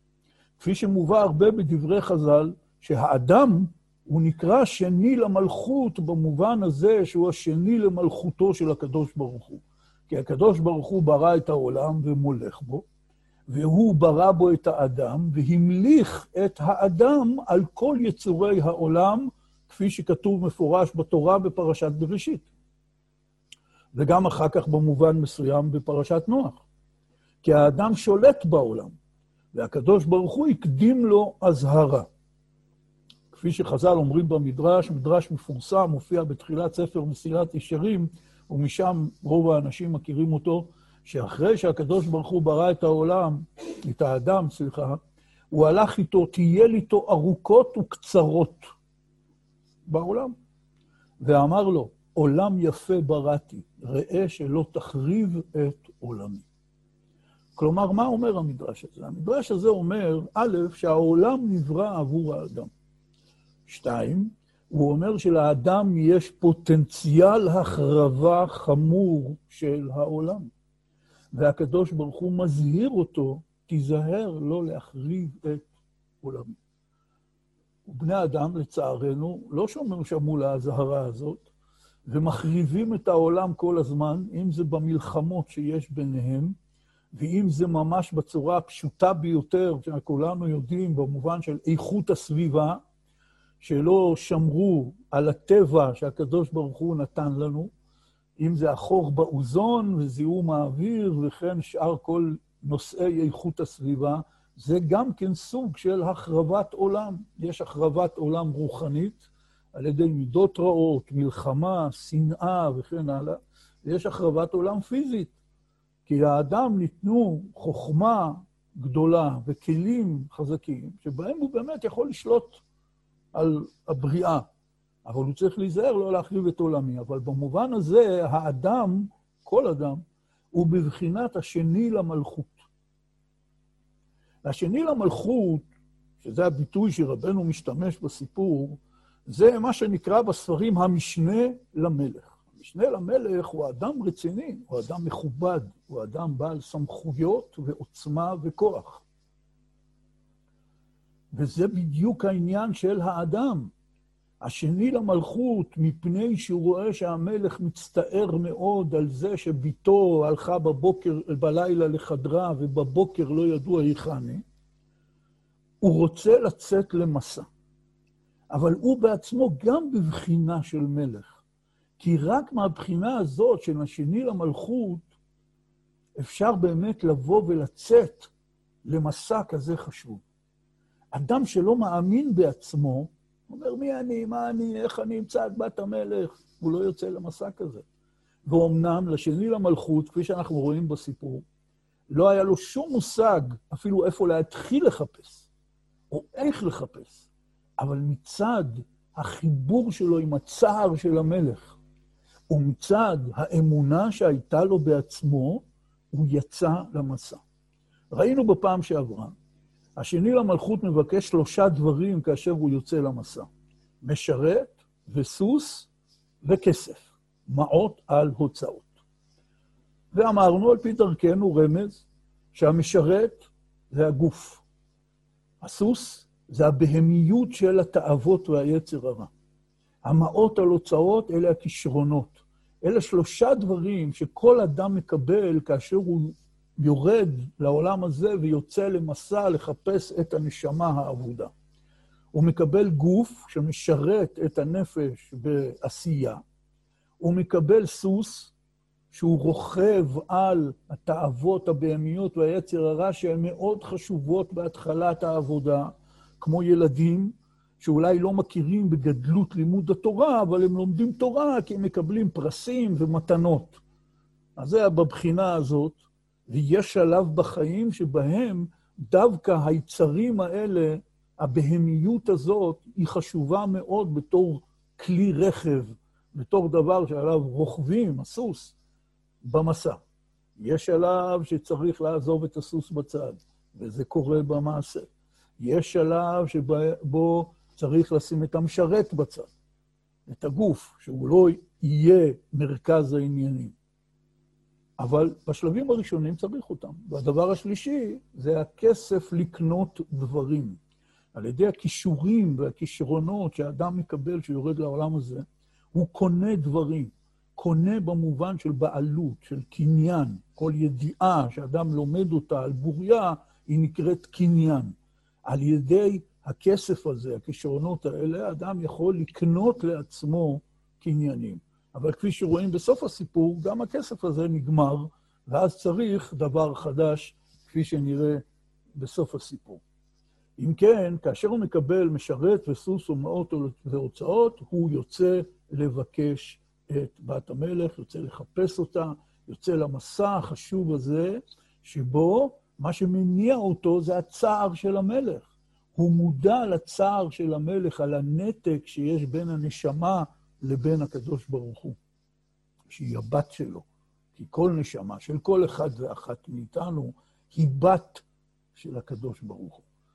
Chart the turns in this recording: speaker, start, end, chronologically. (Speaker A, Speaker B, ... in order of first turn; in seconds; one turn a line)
Speaker A: 0.6-12.8
Speaker A: 13.5-22.5
Speaker A: 23.9-26.6
Speaker A: 27.4-28.9
Speaker A: 29.5-32.1
Speaker A: 33.3-45.0
Speaker A: 45.5-48.7
Speaker A: 49.9-50.3
Speaker A: 51.2-56.5
Speaker A: 57.5-62.7
Speaker A: 63.6-70.5
Speaker A: 71.3-75.7
Speaker A: 76.2-76.6
Speaker A: 77.8-81.5
Speaker A: 82.0-86.5
Speaker A: 87.1-92.8
Speaker A: 93.6-97.7
Speaker A: 98.4-115.3
Speaker A: 116.0-122.6
Speaker A: 123.3-124.5
Speaker A: 125.0-130.0
Speaker A: 130.5-132.6
Speaker A: 134.4-135.7
Speaker A: 136.2-149.0
Speaker A: 151.3-153.7
Speaker A: 154.4-164.4
Speaker A: 165.8-167.5
Speaker A: 168.5-171.4
Speaker A: 172.0-175.1
Speaker A: 176.2-178.3
Speaker A: 178.8-180.2
Speaker A: 181.1-187.8
Speaker A: 188.4-191.4
Speaker A: 192.1-195.5
Speaker A: 196.1-197.3
Speaker A: 197.8-201.8
Speaker A: 202.5-207.4
Speaker A: 208.1-209.3
Speaker A: 209.9-213.5
Speaker A: 214.0-215.9
Speaker A: 216.4-219.0
Speaker A: 220.1-224.6
Speaker A: 225.6-229.3
Speaker A: 230.0-241.5
Speaker A: 242.3-246.4
Speaker A: 247.2-248.5
Speaker A: 249.1-263.8
Speaker A: 264.6-278.7
Speaker A: 279.4-280.0
Speaker A: 280.6-289.5
Speaker A: 290.3-293.7
Speaker A: 295.0-300.8
Speaker A: 301.3-314.9
Speaker A: 315.4-329.8
Speaker A: 330.6-352.0
Speaker A: 352.9-359.8